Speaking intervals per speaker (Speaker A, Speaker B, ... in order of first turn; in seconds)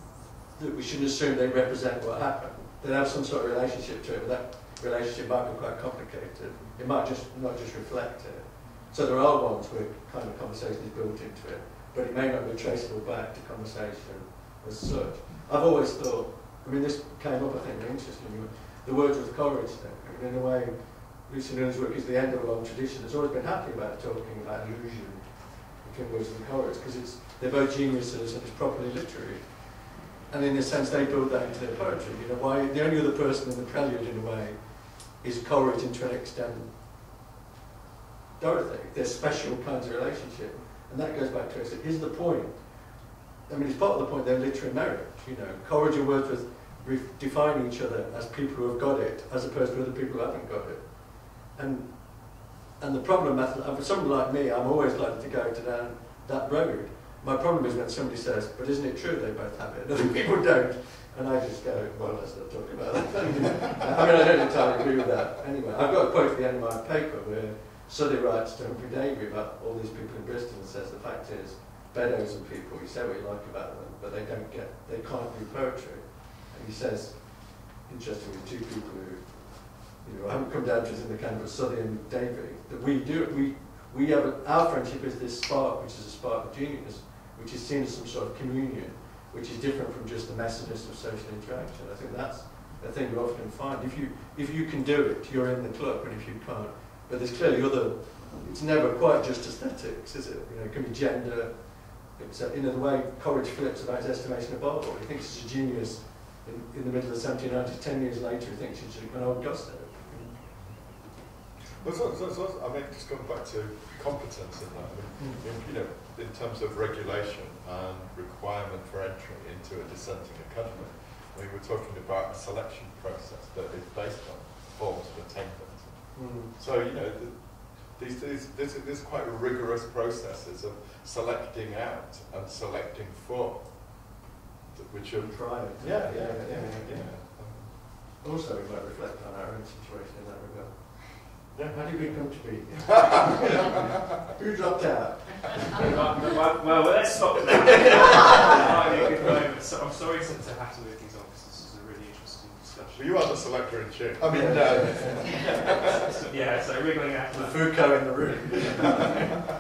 Speaker A: 0.5-37.0, 38.4-110.5, 115.2-115.5, 126.1-126.5, 135.2-137.3, 137.8-145.9, 147.6-148.7, 154.2-155.3, 157.3-159.1
Speaker B: 111.8-137.8, 141.5-144.2, 152.9-156.1
Speaker C: 145.8-153.7, 154.7-158.1